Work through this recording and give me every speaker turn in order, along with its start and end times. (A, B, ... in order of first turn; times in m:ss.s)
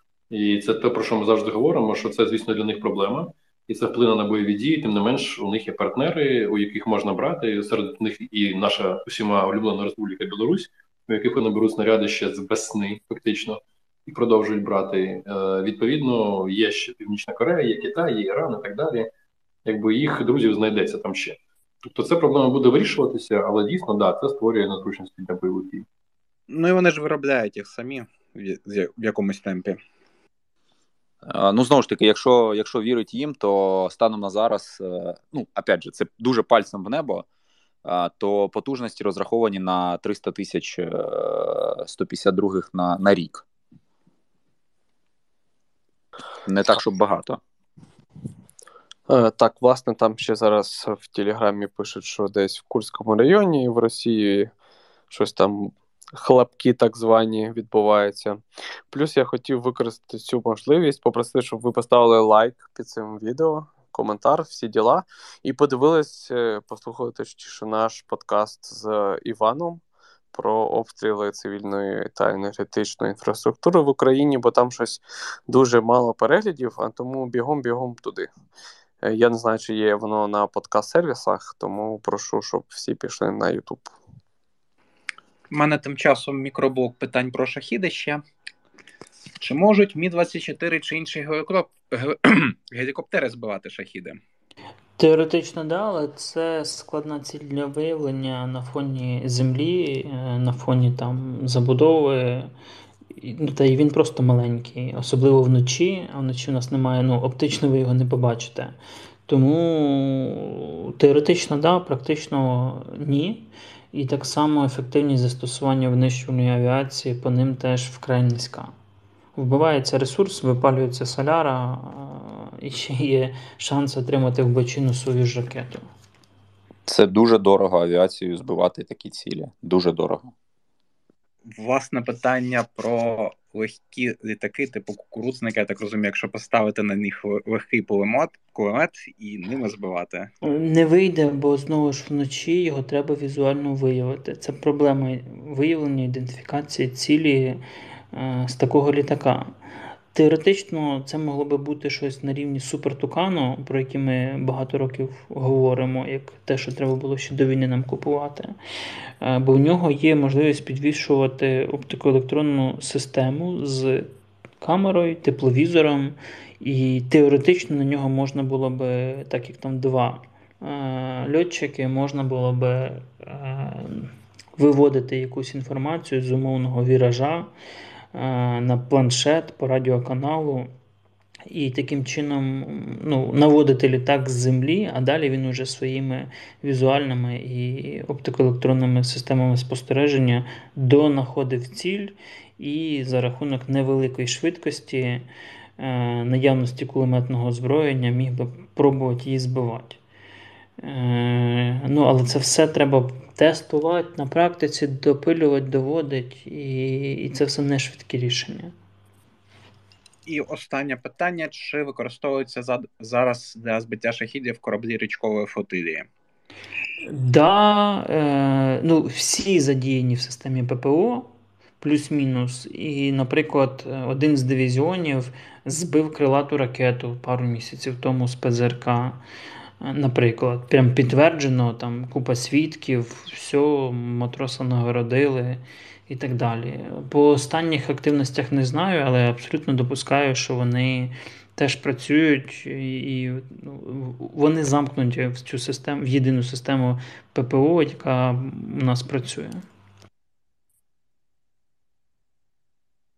0:00.3-0:19.1 A
0:19.6-0:25.9 A
0:26.5-0:29.8 B
0:31.3-0:37.2 C
0:37.8-0:43.4 C
0:46.4-0:47.4 C
0:49.1-0:54.5 D
0:55.1-1:09.8 D
1:10.3-1:18.3 D
1:19.0-1:23.9 D
1:25.5-1:28.2 B
1:29.4-1:34.2 B
1:35.0-1:42.5 E
1:43.2-1:58.7 E
1:59.4-2:05.9 E
2:06.9-2:10.3 C
2:11.5-2:20.3 B
2:20.4-2:27.6 E
2:28.1-2:29.5 E
2:30.1-2:38.6 E
2:39.2-2:44.1 E
2:44.6-2:57.5 E
2:58.1-3:00.7 E
3:01.5-3:15.3 E
3:15.8-3:20.0 E
3:20.8-3:28.7 E
3:30.3-3:36.1 B
3:37.1-3:49.2 E
3:49.8-4:09.6 E